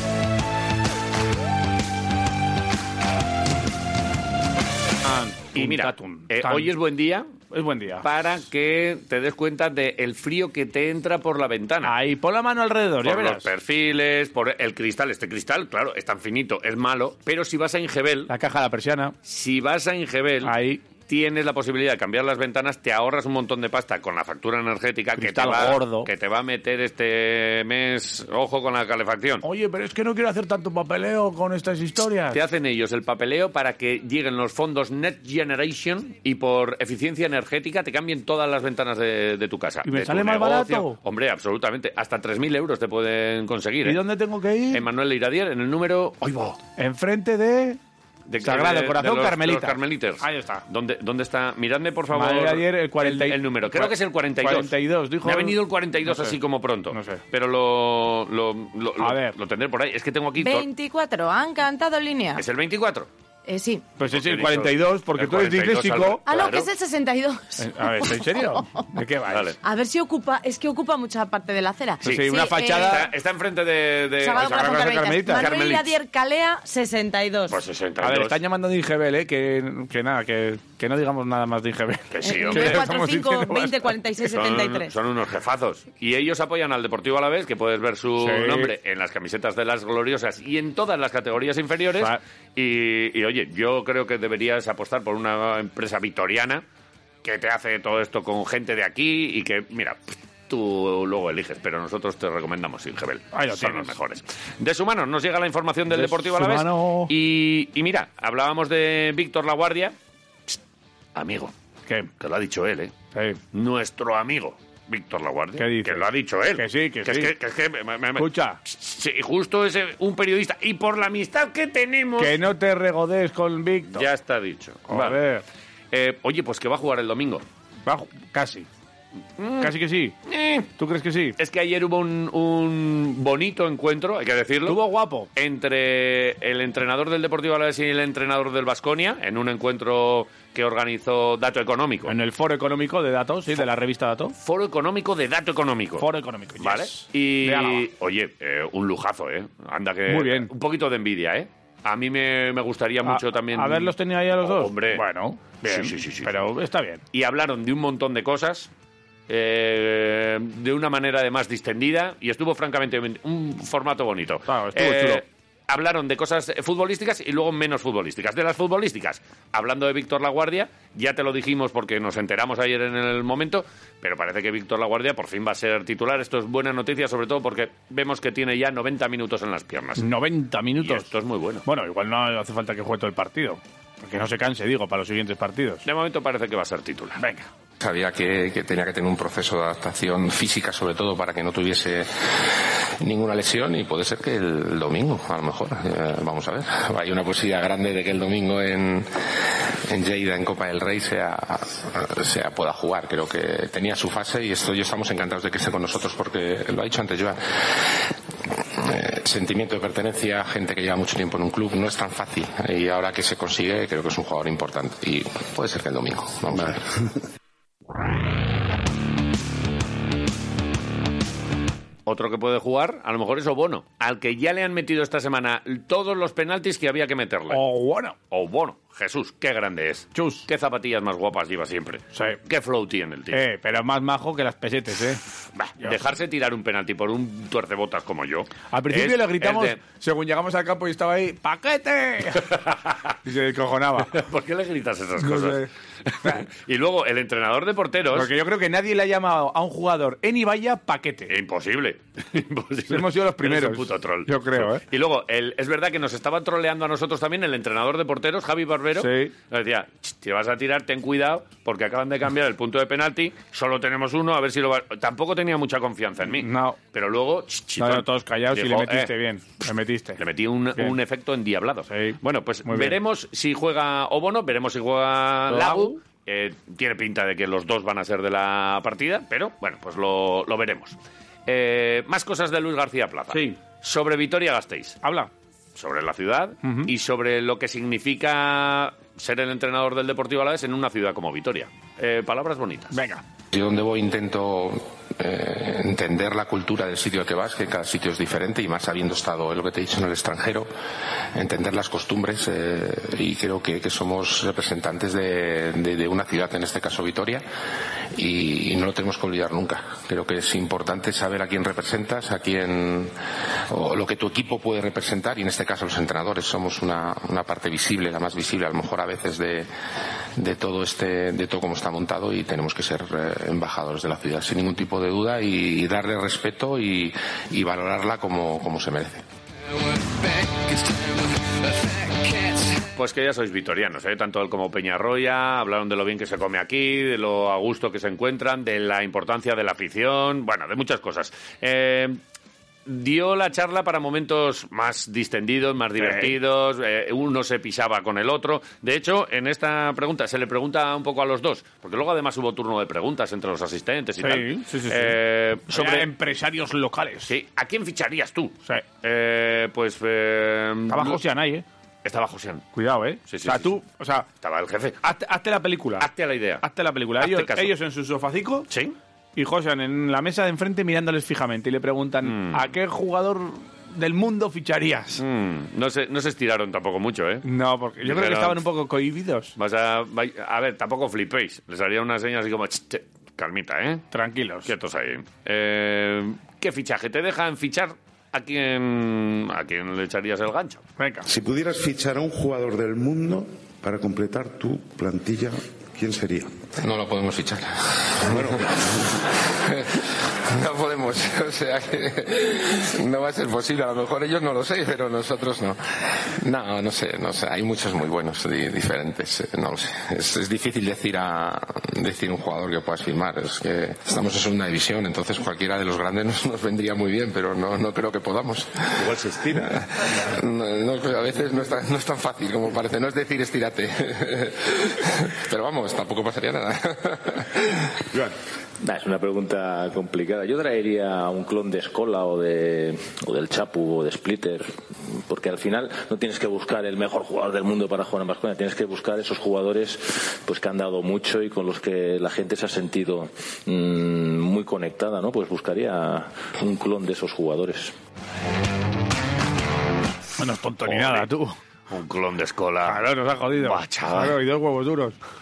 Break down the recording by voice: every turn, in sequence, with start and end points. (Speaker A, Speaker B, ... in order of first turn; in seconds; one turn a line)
Speaker A: 5.0-6.7
Speaker B: 5.5-7.3
Speaker A: 7.5-8.1
Speaker B: 8.0-12.0
Speaker A: 11.8-13.5
Speaker B: 13.0-18.3
Speaker A: 18.3-19.1
Speaker B: 19.2-29.4
Speaker A: 20.4-20.8
Speaker A: 25.2-26.1
Speaker A: 29.4-32.4
Speaker B: 32.3-44.0
Speaker A: 39.8-41.0
Speaker A: 43.8-44.8
Speaker B: 44.7-46.6
Speaker A: 46.8-47.8
Speaker B: 48.3-60.7
Speaker A: 48.4-50.6
Speaker A: 52.1-56.4
Speaker A: 56.9-57.2
Speaker A: 59.0-59.4
Speaker C: 60.4-62.4
Speaker B: 62.4-63.1
Speaker C: 63.5-63.9
Speaker A: 64.0-66.2
Speaker B: 64.1-66.7
Speaker C: 66.3-68.8
Speaker A: 67.6-69.5
Speaker B: 69.3-69.6
Speaker C: 69.6-73.1
Speaker A: 72.0-73.1
Speaker B: 72.0-75.9
Speaker C: 74.2-77.6
Speaker A: 74.3-75.5
Speaker B: 77.5-78.4
Speaker A: 78.0-83.9
Speaker B: 82.1-82.9
Speaker C: 82.2-84.9
Speaker B: 84.2-96.6
Speaker A: 88.2-88.7
Speaker B: 97.2-110.0
Speaker A: 103.3-104.0
Speaker A: 105.9-107.1
Speaker B: 111.2-111.5
Speaker B: 112.2-112.9
Speaker A: 113.1-113.4
Speaker B: 113.5-122.4
Speaker A: 115.6-117.3
Speaker A: 118.2-118.6
Speaker A: 122.2-124.1
Speaker B: 123.9-125.2
Speaker A: 124.9-125.4
Speaker B: 125.9-127.4
Speaker A: 127.9-128.7
Speaker B: 129.4-130.7
Speaker A: 129.6-130.2
Speaker A: 130.8-131.4
Speaker B: 131.4-134.8
Speaker A: 134.7-135.3
Speaker B: 135.3-142.1
Speaker A: 142.1-144.3
Speaker B: 144.4-146.1
Speaker A: 146.0-147.8
Speaker B: 146.6-155.0
Speaker A: 150.1-150.5
Speaker A: 153.1-157.0
Speaker B: 155.7-156.4
Speaker B: 157.1-158.7
Speaker B: 159.3-180.1
Speaker A: 164.5-165.2
Speaker A: 180.0-181.1
Speaker B: 180.8-181.6
Speaker A: 181.7-185.8
Speaker B: 185.8-187.2
Speaker A: 187.2-187.5
Speaker D: 187.8-217.0
Speaker B: 222.1-227.6
Speaker A: 227.5-228.2
Speaker B: 228.3-233.4
Speaker A: 230.2-230.5
Speaker A: 232.1-232.4
Speaker A: 233.3-235.2
Speaker B: 235.7-239.8
Speaker A: 238.7-242.6
Speaker B: 242.4-242.9
Speaker A: 243.2-244.2
Speaker B: 244.1-248.3
Speaker A: 245.2-245.7
Speaker A: 248.1-251.3
Speaker B: 251.3-269.1
Speaker A: 252.9-254.8
Speaker A: 259.0-259.3
Speaker A: 266.3-266.8
Speaker A: 267.8-270.2
Speaker B: 270.2-285.0
Speaker A: 271.9-273.0
Speaker A: 275.5-276.0
Speaker A: 283.3-283.6
Speaker A: 285.0-285.3
Speaker B: 285.8-292.9
Speaker A: 286.6-286.9
Speaker A: 292.9-293.2
Speaker D: 293.5-300.7
Speaker D: 301.3-307.4
Speaker D: 308.1-313.1
Speaker D: 313.7-319.7
Speaker D: 320.4-329.3
Speaker B: 332.9-342.2
Speaker B: 342.9-356.1
Speaker A: 346.0-346.3
Speaker A: 354.2-355.2
Speaker A: 355.7-357.3
Speaker B: 357.3-361.2
Speaker A: 360.9-361.6
Speaker B: 362.1-362.7
Speaker A: 362.8-364.3
Speaker B: 363.3-363.7
Speaker B: 364.4-365.0
Speaker A: 365.0-366.1
Speaker B: 366.0-366.6
Speaker A: 366.6-368.7
Speaker B: 367.2-367.7
Speaker B: 368.7-369.0
Speaker A: 369.4-375.2
Speaker B: 372.2-372.6
Speaker B: 375.2-377.5
Speaker A: 377.4-379.5
Speaker B: 378.0-378.6
Speaker B: 379.6-384.1
Speaker A: 384.1-384.7
Speaker B: 384.6-390.8
Speaker A: 391.0-391.3
Speaker E: 391.3-396.6
Speaker D: 396.8-428.2
Speaker E: 398.3-398.8
Speaker F: 428.8-447.9
Speaker A: 450.4-451.6
Speaker B: 450.8-451.3
Speaker B: 451.9-454.4
Speaker A: 452.9-455.2